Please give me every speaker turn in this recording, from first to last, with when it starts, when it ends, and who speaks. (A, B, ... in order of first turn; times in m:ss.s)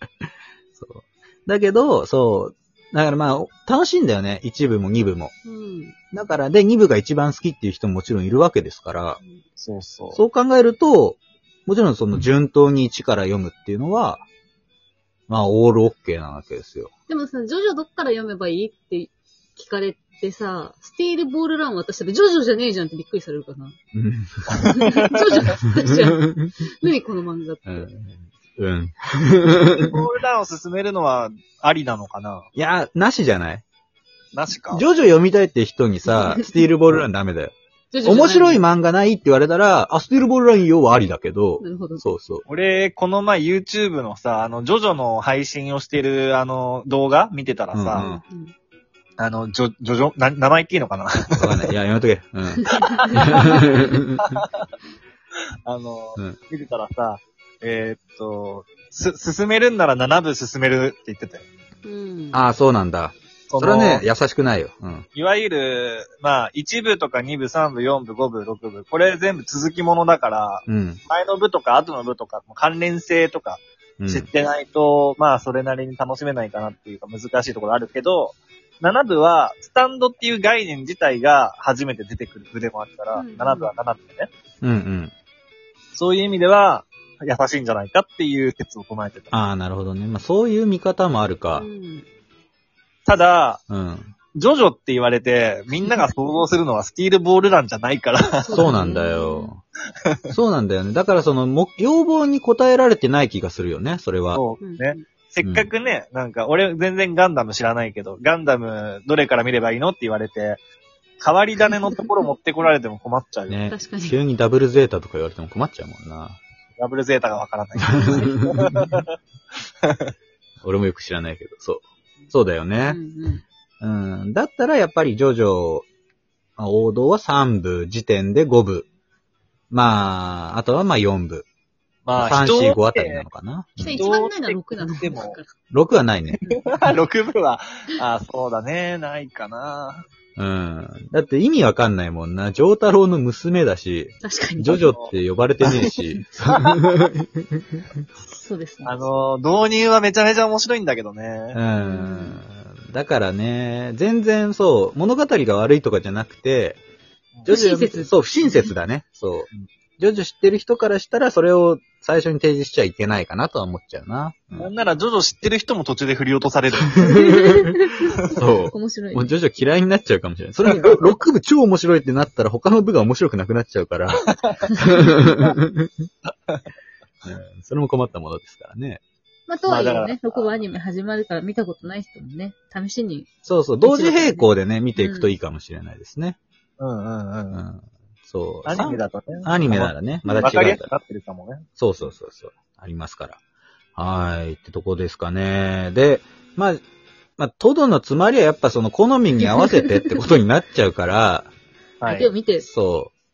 0:00.8-0:05.3 A
0:05.5-0:06.0 B
0:06.1-0:09.2 A
0:09.6-0:10.2 C
0:10.1-0:14.2 A
0:15.3-0:16.9 A
0:17.1-0:23.8 B
0:23.9-0:24.7 A
0:24.6-0:25.5 C
0:24.6-0:27.9 B
0:25.9-0:26.5 A
0:27.7-0:30.0 A
0:29.9-0:32.5 C
0:32.6-0:33.6 A
0:34.3-0:34.8 C
0:34.7-0:42.4 A
0:36.1-0:36.5 B
0:37.9-0:38.6 B
0:41.6-0:42.0 B
0:42.5-0:48.1 C
0:47.7-0:48.2 A
0:48.0-0:48.5 B
0:49.2-0:51.7 C
0:51.4-0:54.2 A
0:52.6-0:52.9 B
0:52.8-0:53.6 C
0:54.2-0:54.7 C
0:55.7-1:01.4 C
1:01.8-1:02.4 B
1:02.3-1:05.1 A
1:03.5-1:04.0 C
1:05.2-1:24.3 C
1:10.7-1:11.0 A
1:14.0-1:14.3 A
1:23.2-1:23.7 B
1:24.6-1:25.1 A
1:25.9-1:29.3 C
1:29.3-1:31.7 A
1:31.6-1:32.1 B
1:33.1-1:33.6 C
1:33.7-1:34.1 A
1:34.4-1:38.7 C
1:35.8-1:36.1 B
1:38.4-1:39.5 B
1:38.5-1:39.6 A
1:40.3-1:44.4 A
1:44.3-1:50.6 C
1:44.6-1:45.0 B
1:45.4-1:45.7 A
1:51.2-1:53.6 C
1:53.5-1:56.4 A
1:53.7-1:54.2 B
1:56.8-1:59.1 C
1:58.0-1:58.3 B
1:59.8-2:00.1 C
2:00.6-2:03.0 A
2:02.8-2:03.4 B
2:03.8-2:05.9 A
2:06.6-2:08.9 A
2:09.7-2:11.5 A
2:12.0-2:13.2 C
2:12.2-2:14.1 A
2:13.8-2:15.5 B
2:13.9-2:15.4 C
2:15.7-2:16.4 A
2:16.5-2:20.0 C
2:20.4-2:27.3 A
2:24.2-2:24.8 B
2:24.7-2:25.1 C
2:26.5-2:27.0 C
2:28.3-2:29.1 B
2:28.8-2:31.6 C
2:31.5-2:36.8 A
2:31.7-2:32.4 B
2:37.5-2:38.7 B
2:37.5-2:44.7 A
2:44.6-2:47.1 C
2:47.0-2:47.8 A
2:47.0-2:49.3 B
2:48.3-2:56.1 A
2:54.3-2:54.6 C
2:57.2-2:59.0 A
2:59.5-3:03.3 B
2:59.7-3:00.5 C
3:03.4-3:06.4 A
3:03.8-3:05.3 B
3:06.8-3:07.6 C
3:07.5-3:10.9 A
3:08.7-3:11.7 C
3:10.2-3:10.6 B
3:11.8-3:13.4 A
3:14.0-3:16.8 A
3:17.4-3:21.5 A
3:19.6-3:20.0 B
3:22.0-3:22.3 C
3:22.1-3:22.7 B
3:22.6-3:23.1 A